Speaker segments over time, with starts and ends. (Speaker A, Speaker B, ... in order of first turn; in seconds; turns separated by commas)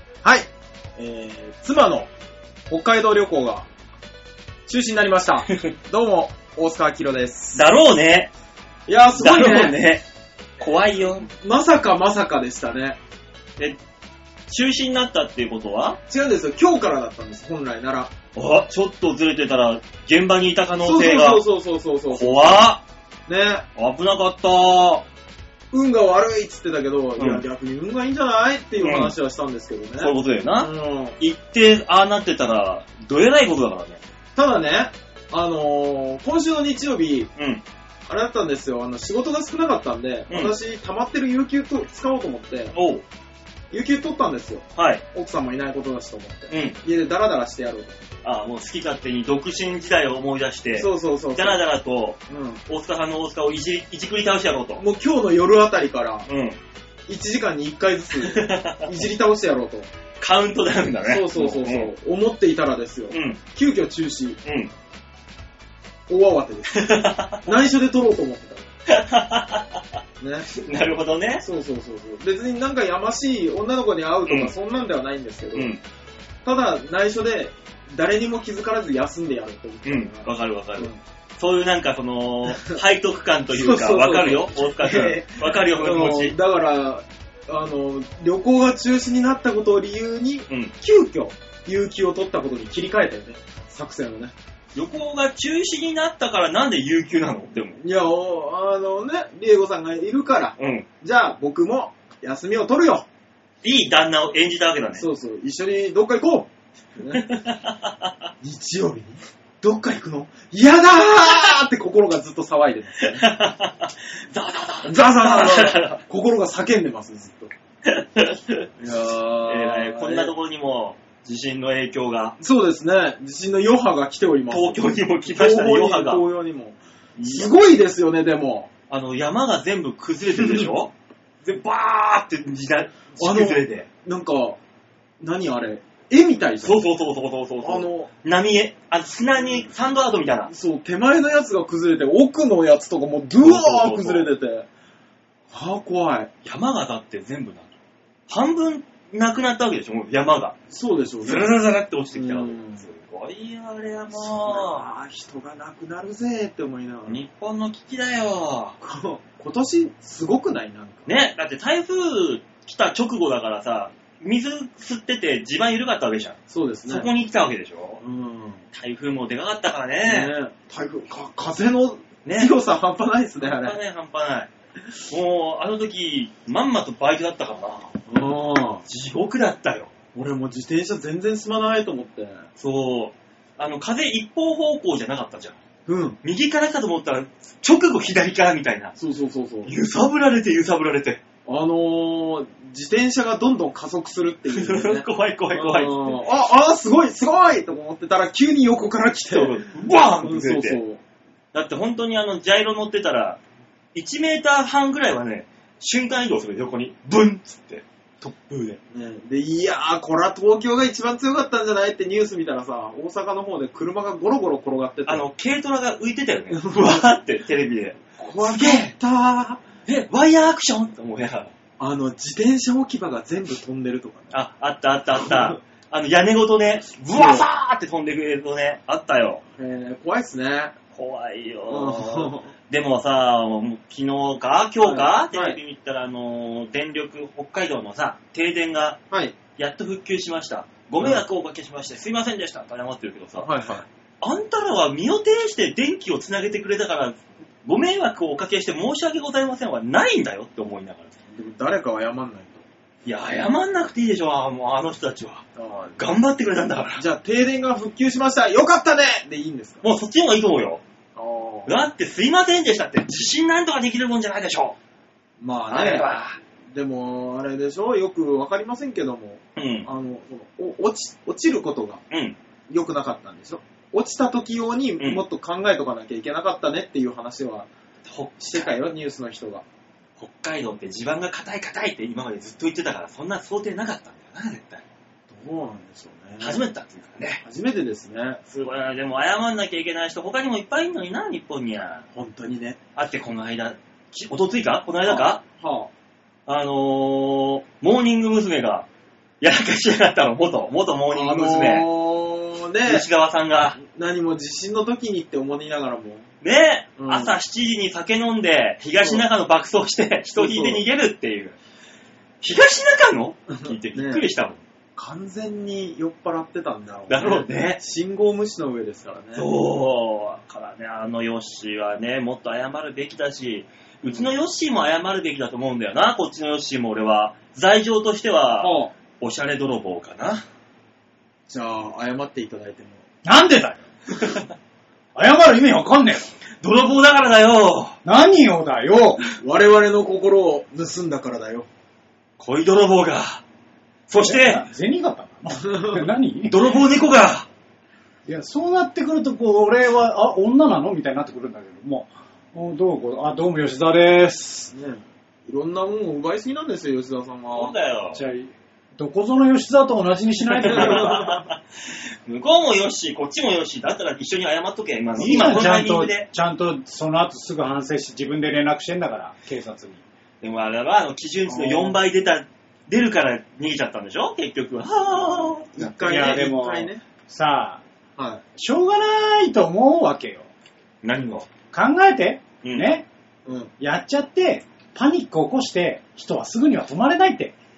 Speaker A: 0.2-2.1, Speaker A: 2.7-3.7, Speaker A: 4.7-7.6, Speaker B: 7.5-8.3, Speaker A: 8.9-9.8, Speaker B: 9.2-10.0, Speaker B: 10.6-11.3, Speaker A: 11.3-13.0, Speaker B: 14.5-16.0, Speaker A: 16.1-18.1, Speaker B: 18.3-21.4, Speaker A: 20.8-22.7, Speaker B: 22.1-22.8, Speaker A: 23.3-23.7, Speaker B: 23.8-25.1, Speaker A: 25.7-31.2, Speaker B: 27.2-27.4, Speaker B: 28.8-29.1, Speaker B: 30.0-34.0, Speaker A: 34.4-37.3, Speaker B: 37.4-37.6, Speaker A: 38.1-42.7, Speaker B: 40.3-40.6, Speaker B: 42.7-43.0, Speaker A: 43.7-48.0, Speaker B: 44.8-45.0, Speaker B: 46.5-46.8, Speaker B: 48.2-54.8, Speaker A: 50.7-51.6, Speaker A: 52.3-52.6, Speaker A: 54.8-56.3, Speaker B: 56.3-56.6, Speaker A: 57.1-59.9, Speaker B: 58.2-59.0, Speaker B: 60.2-61.9, Speaker A: 61.0-64.4, Speaker B: 63.1-63.4, Speaker B: 64.5-64.7, Speaker A: 66.1-66.9, Speaker B: 66.7-67.5, Speaker A: 67.4-68.7, Speaker B: 68.9-69.8, Speaker A: 70.2-70.5, Speaker B: 70.5-71.5, Speaker A: 71.4-75.7, Speaker B: 74.2-74.5, Speaker B: 75.5-75.8, Speaker A: 76.5-81.0, Speaker B: 79.8-86.3, Speaker A: 82.5-82.8, Speaker A: 83.5-94.3, Speaker B: 94.8-97.8, Speaker A: 97.8-103.1, Speaker B: 100.6-100.9, Speaker B: 103.6-105.0, Speaker A: 105.0-107.2, Speaker B: 107.1-108.3, Speaker A: 108.4-113.2, Speaker B: 113.0-116.0, Speaker A: 114.8-117.5, Speaker B: 117.8-118.7, Speaker A: 118.8-120.3, Speaker B: 119.5-122.4, Speaker A: 122.4-128.7, Speaker B: 124.5-126.2, Speaker B: 127.2-127.5, Speaker B: 128.9-130.9, Speaker A: 130.4-130.7, Speaker B: 131.4-133.9, Speaker A: 133.2-134.6, Speaker A: 135.2-136.9, Speaker B: 136.6-140.5, Speaker A: 137.6-138.1, Speaker A: 140.5-144.7, Speaker B: 143.4-144.3, Speaker A: 145.5-146.3, Speaker B: 146.4-147.7, Speaker B: 148.3-150.6, Speaker A: 150.7-151.5, Speaker B: 151.2-154.9, Speaker A: 152.1-152.8, Speaker A: 154.2-157.2, Speaker B: 157.1-158.8, Speaker A: 158.8-161.1, Speaker B: 161.1-168.0, Speaker A: 166.5-167.1, Speaker A: 168.0-168.6, Speaker B: 168.7-170.3, Speaker A: 170.0-173.8, Speaker B: 172.2-172.5, Speaker B: 173.4-174.5, Speaker B: 175.1-177.9, Speaker A: 178.1-178.8, Speaker B: 178.8-179.9, Speaker A: 180.1-182.4, Speaker B: 182.6-185.6, Speaker A: 185.9-186.2, Speaker B: 186.2-188.9, Speaker A: 189.0-189.7, Speaker B: 189.7-191.2, Speaker A: 191.5-199.6, Speaker B: 194.5-196.2, Speaker B: 199.3-200.8, Speaker A: 200.2-201.0, Speaker B: 201.5-203.4, Speaker B: 203.9-208.8, Speaker A: 208.9-215.2, Speaker B: 215.1-218.9, Speaker A: 216.5-217.0, Speaker A: 218.2-219.6, Speaker B: 219.9-221.5, Speaker A: 221.8-224.3, Speaker B: 224.3-229.4, Speaker A: 225.2-225.5, Speaker A: 227.1-227.4, Speaker A: 229.6-230.7, Speaker B: 230.9-239.0, Speaker A: 231.7-232.5, Speaker A: 234.8-235.6, Speaker A: 239.1-239.3, Speaker B: 239.6-243.5, Speaker A: 243.4-243.8, Speaker B: 244.2-251.1, Speaker A: 251.3-252.6, Speaker B: 253.0-255.5, Speaker A: 255.6-256.0, Speaker B: 256.0-257.0, Speaker A: 257.0-259.8, Speaker B: 259.8-260.8, Speaker A: 261.1-261.8, Speaker B: 261.7-264.8, Speaker A: 265.4-266.2, Speaker B: 265.7-266.4, Speaker A: 266.7-272.0, Speaker B: 269.6-269.9, Speaker B: 272.1-272.4, Speaker A: 272.7-277.7, Speaker B: 278.1-278.7, Speaker A: 278.4-279.6, Speaker B: 280.2-284.8, Speaker A: 285.3-286.6, Speaker B: 286.4-287.4, Speaker A: 287.4-288.4, Speaker B: 288.5-292.0, Speaker A: 292.1-292.8, Speaker B: 293.0-295.4, Speaker A: 295.0-295.9, Speaker B: 296.5-298.9, Speaker B: 299.4-301.9, Speaker A: 301.1-303.0, Speaker B: 302.9-303.8, Speaker A: 303.8-306.2, Speaker B: 306.4-311.6, Speaker A: 307.0-307.4, Speaker A: 309.0-309.2, Speaker A: 310.4-310.8, Speaker B: 312.4-314.6, Speaker A: 313.5-314.2, Speaker A: 315.0-319.5, Speaker B: 317.1-317.8, Speaker B: 319.4-330.4, Speaker A: 328.6-328.9, Speaker A: 331.5-333.0, Speaker C: 333.2-333.8, Speaker C: 335.1-336.3, Speaker B: 336.6-338.0, Speaker C: 338.0-339.2, Speaker A: 339.4-341.7, Speaker B: 342.4-343.4, Speaker B: 344.1-344.6, Speaker C: 344.2-346.5, Speaker A: 345.6-346.0, Speaker B: 346.5-347.5, Speaker C: 348.2-354.7, Speaker A: 354.7-357.7, Speaker B: 357.5-358.2, Speaker C: 358.1-361.1, Speaker B: 360.5-361.6, Speaker A: 360.6-361.4, Speaker B: 362.2-366.3, Speaker A: 365.2-365.6, Speaker C: 365.2-370.0, Speaker B: 370.4-376.3, Speaker A: 371.5-372.0, Speaker A: 375.7-377.0, Speaker C: 376.0-377.8, Speaker A: 378.2-378.4, Speaker C: 378.6-380.5, Speaker B: 381.0-381.5, Speaker C: 381.7-383.1, Speaker B: 382.6-382.9, Speaker A: 383.5-383.7, Speaker C: 383.8-387.5